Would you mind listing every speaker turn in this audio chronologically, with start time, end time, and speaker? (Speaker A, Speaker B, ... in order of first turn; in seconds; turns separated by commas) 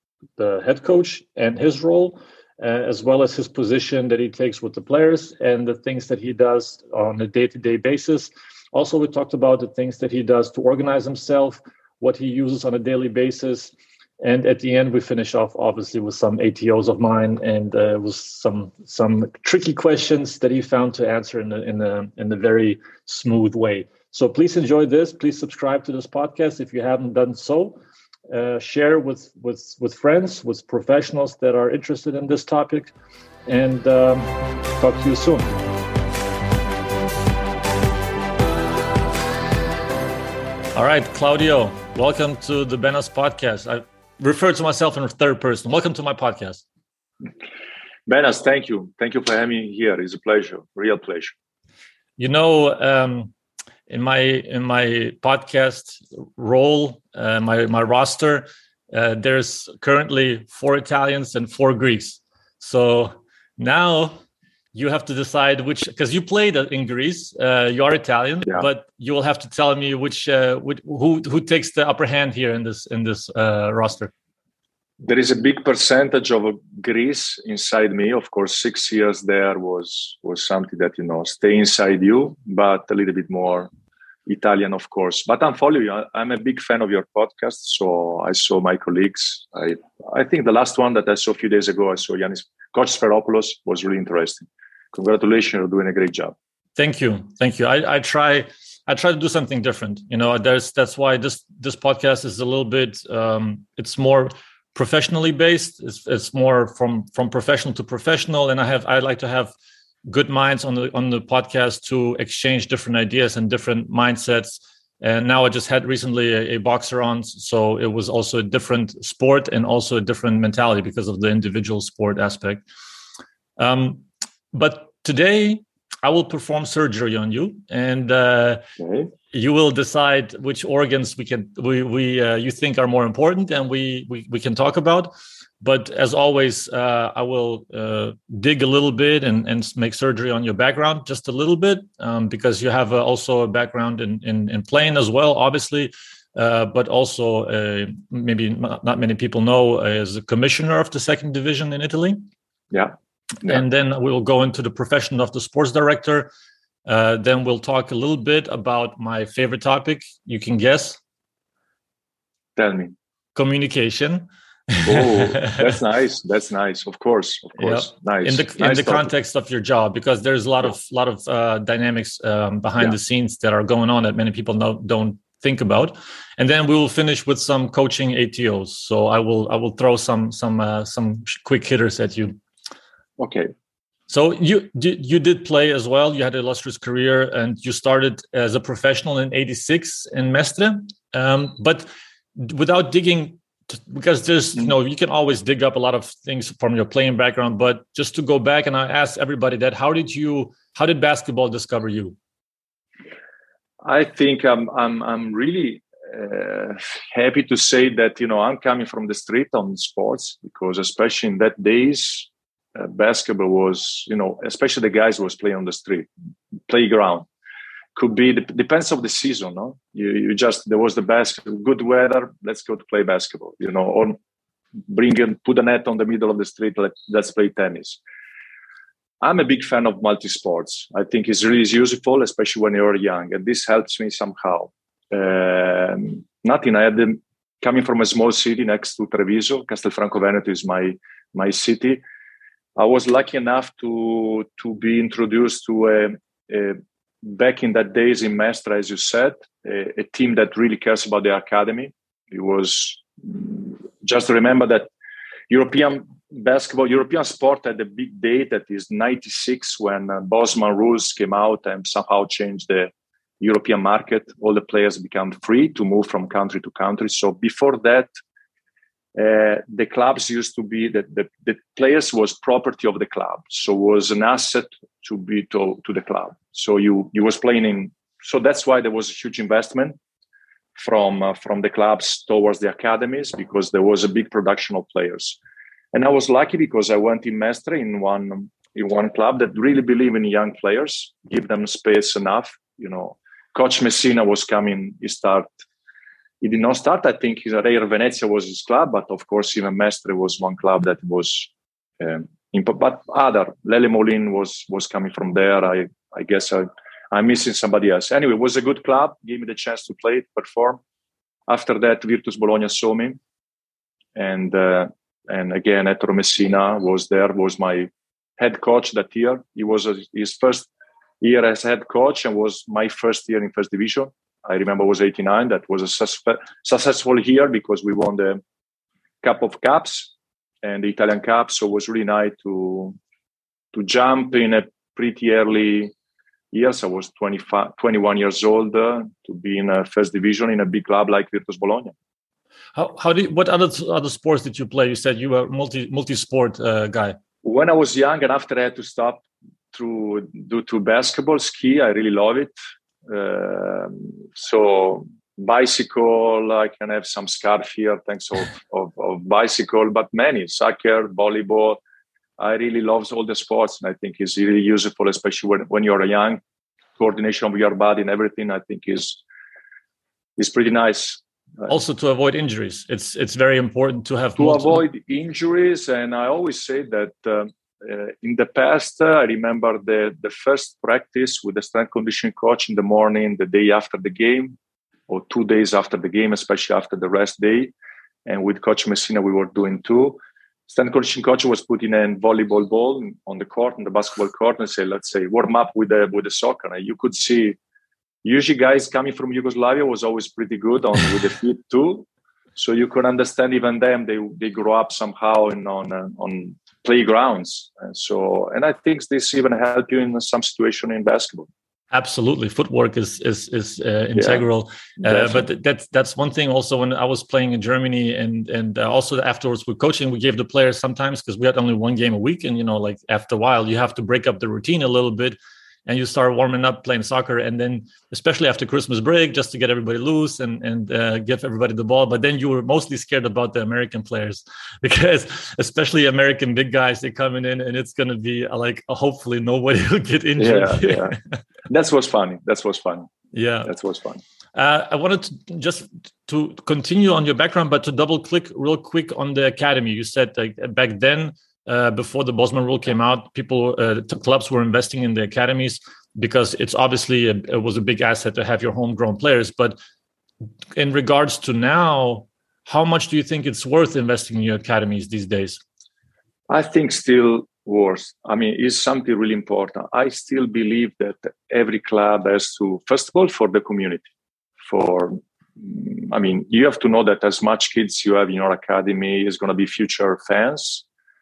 Speaker A: 0.4-27.8, Speaker A: 28.3-32.9, Speaker A: 33.5-35.5, Speaker A: 40.7-46.6, Speaker B: 48.1-51.3, Speaker A: 52.2-53.3, Speaker A: 53.9-64.2, Speaker A: 64.7-74.1, Speaker B: 75.0-83.7, Speaker B: 84.2-96.3, Speaker A: 96.8-109.5, Speaker A: 110.1-122.6, Speaker A: 123.6-128.7, Speaker B: 128.8-129.1, Speaker A: 129.3-152.2, Speaker A: 153.4-156.3, Speaker A: 156.8-161.0, Speaker B: 162.6-162.9, Speaker A: 163.3-165.7, Speaker B: 164.8-169.1, Speaker A: 167.6-182.4, Speaker B: 183.2-183.5, Speaker A: 184.1-202.2, Speaker B: 203.8-216.1, Speaker B: 216.7-217.3, Speaker B: 217.9-224.2, Speaker B: 224.9-228.0, Speaker B: 229.2-242.0, Speaker B: 242.8-254.9, Speaker B: 255.5-268.1, Speaker B: 269.1-280.0, Speaker B: 280.8-285.4, Speaker B: 285.9-295.5, Speaker B: 296.4-310.8, Speaker B: 311.5-313.2, Speaker B: 314.1-320.7, Speaker B: 321.2-328.4, Speaker B: 329.2-330.1, Speaker B: 330.6-332.9, Speaker B: 333.7-335.9, Speaker B: 336.5-341.9, Speaker A: 342.8-347.2, Speaker B: 347.4-352.5, Speaker B: 353.1-361.8, Speaker B: 362.4-366.4, Speaker B: 367.0-369.2, Speaker B: 370.4-371.6, Speaker A: 371.7-374.8, Speaker B: 374.4-384.6, Speaker B: 385.1-387.7, Speaker B: 388.2-397.6, Speaker B: 398.2-411.5, Speaker A: 411.9-441.3, Speaker B: 414.1-414.4, Speaker B: 415.0-415.4, Speaker B: 440.4-443.1, Speaker A: 443.3-443.7, Speaker B: 443.6-444.2, Speaker A: 444.5-459.8, Speaker A: 460.8-465.6, Speaker B: 466.5-474.1, Speaker B: 474.6-480.8